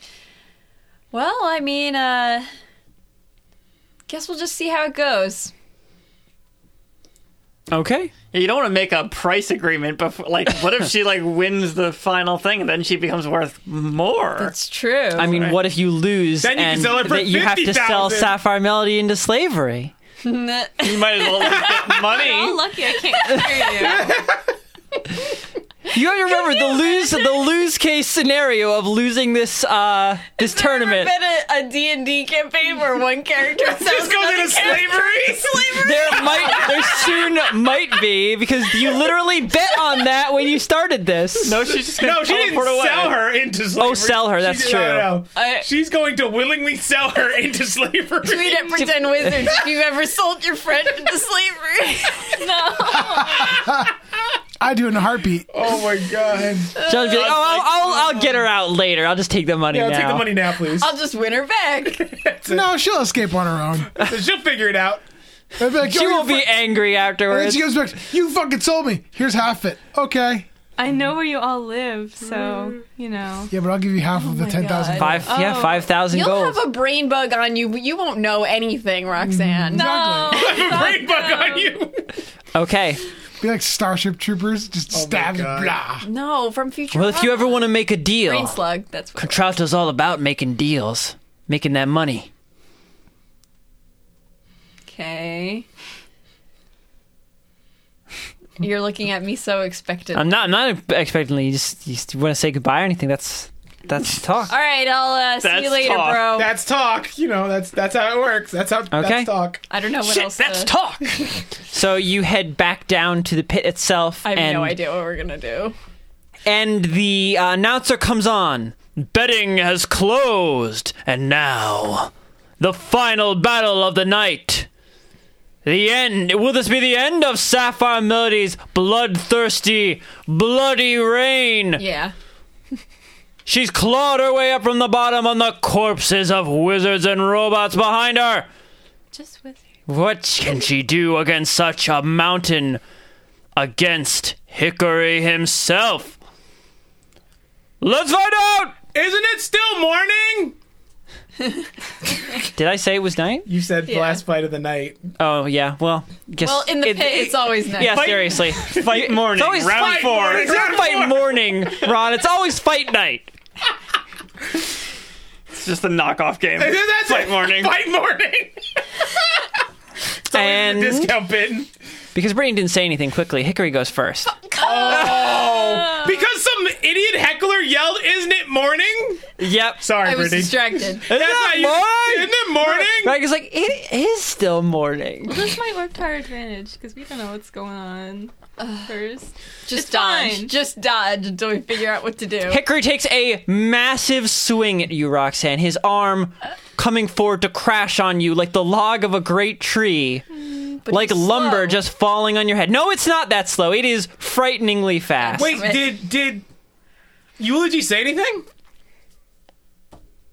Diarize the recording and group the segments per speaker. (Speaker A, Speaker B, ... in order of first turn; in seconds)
Speaker A: 1.1-2.5, 4.1-5.5, 14.4-15.5, 20.2-22.3, 22.9-24.1, 26.3-27.2, 30.4-37.9, 39.6-40.0, 45.3-45.7, 48.2-53.4, 56.7-57.4, 60.7-62.0, 74.1-81.7, 86.0-89.5, 94.9-95.7, 98.6-100.5, 104.5-106.5, 109.7-110.7, 114.2-115.7, 131.8-132.1, 153.8-154.2, 156.4-158.3, 174.2-176.2, 179.9-181.1, 188.6-189.0, 189.7-192.6, 200.8-201.8, 205.2-206.0
Speaker B: 7.7-8.1, 15.1-19.9, 25.9-31.1, 35.8-41.7, 43.8-45.2, 48.8-49.5, 56.8-60.3, 65.8-67.7, 75.0-76.6, 82.5-83.0, 86.9-88.6, 89.2-92.3, 100.1-104.5, 108.9-109.3, 111.7-114.8, 116.4-124.7, 125.6-131.8, 133.4-138.5, 139.9-142.8, 143.6-146.2, 147.8-148.8, 152.5-153.5, 155.2-163.3, 170.3-171.1, 172.1-174.3, 174.9-175.2, 179.4-179.8, 181.1-185.5, 192.4-200.2, 200.9-205.6
Speaker C: 8.3-14.5, 15.1-15.6, 20.8-22.6, 41.4-43.3, 57.1-58.0, 105.4-106.4, 110.0-111.3, 157.8-160.6, 165.5-167.8
Speaker D: 16.4-18.4, 23.8-24.5, 33.6-36.5, 41.8-48.8, 55.5-56.8, 59.7-61.0, 62.0-62.7, 64.0-65.0, 80.3-82.1, 84.9-85.8, 106.3-109.6, 148.9-150.5, 153.4-155.1, 159.6-161.6, 166.6-169.4, 170.3-171.7, 174.6-183.2, 205.3-206.4, 207.4-208.4
Speaker E: 22.1-24.1, 52.4-53.5, 70.8-73.5, 75.3-75.9, 79.7-81.4, 139.1-139.6, 185.3-188.3, 188.8-190.5
Speaker F: 53.4-53.9, 54.6-55.8, 62.5-63.9, 65.6-66.7, 67.3-70.5, 73.5-75.3, 79.6-80.4, 83.4-86.0